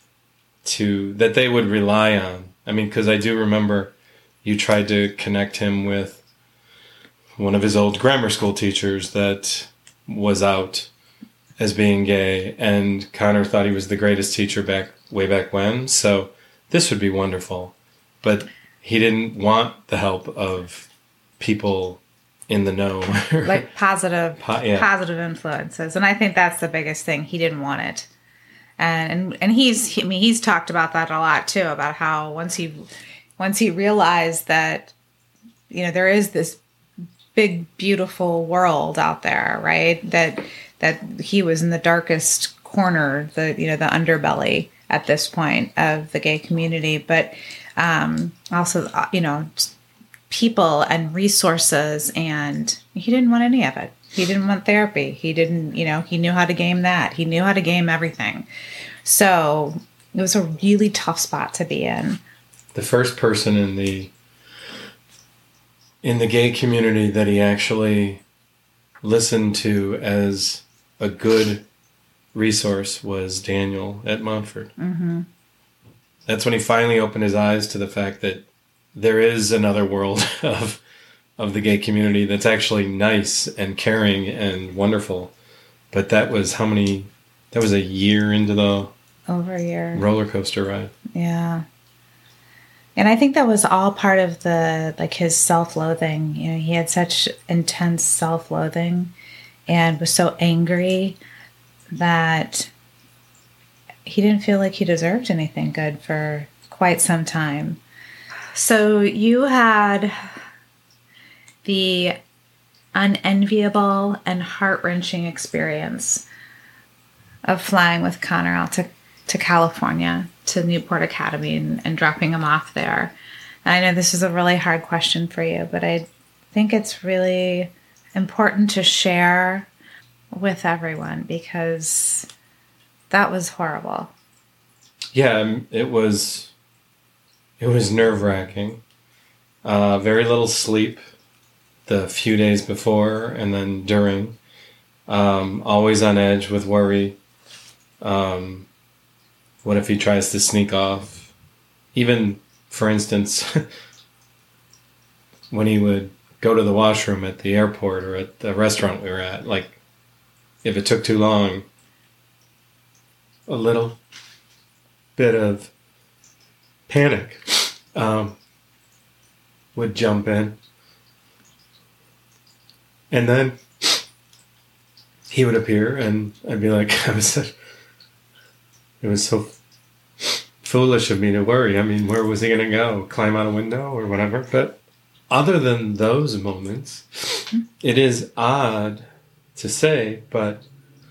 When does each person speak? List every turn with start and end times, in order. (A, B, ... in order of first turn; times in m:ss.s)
0:00.6-0:06.2 A
0:07.4-0:10.9 A
0:11.6-0:23.7 A
0:23.4-0:28.1 B
0:24.4-0:24.9 A
0:28.8-0:32.8 B
0:33.4-0:34.9 B
0:35.7-0:36.6 B
0:37.3-0:49.7 B
0:50.3-0:58.4 B
0:59.0-1:02.2 B
1:02.7-1:04.1 A
1:06.0-1:08.2 A
1:09.0-1:11.6 A
1:12.3-1:14.7 A
1:14.8-1:15.3 B
1:16.3-1:20.8 A
1:21.4-1:25.3 A
1:25.9-1:28.9 A
1:29.3-1:30.0 B
1:29.9-1:30.9 A
1:31.1-1:31.6 B
1:33.0-1:39.1 B
1:39.7-1:41.2 B
1:41.9-1:42.7 B
1:44.0-1:47.8 B
1:48.5-1:50.1 B
1:51.6-1:52.2 B
1:52.9-1:56.2 B
1:57.4-2:03.1 B
2:03.6-2:09.7 B
2:10.3-2:12.3 B
2:13.1-2:14.1 B
2:15.1-2:16.5 A
2:17.6-2:18.8 A
2:19.6-2:21.0 A
2:21.8-2:24.4 A
2:25.1-2:27.2 A
2:28.0-2:28.7 A
2:29.6-2:31.3 A
2:31.9-2:33.5 A
2:35.5-2:39.8 A
2:40.6-2:41.6 A
2:43.5-2:44.0 A
2:45.2-2:45.7 A
2:46.9-2:48.4 A
2:49.7-2:50.6 A
2:53.1-2:54.0 A
2:55.3-2:57.5 A
2:59.0-2:59.5 A
3:00.2-3:09.0 A
3:09.5-3:10.6 A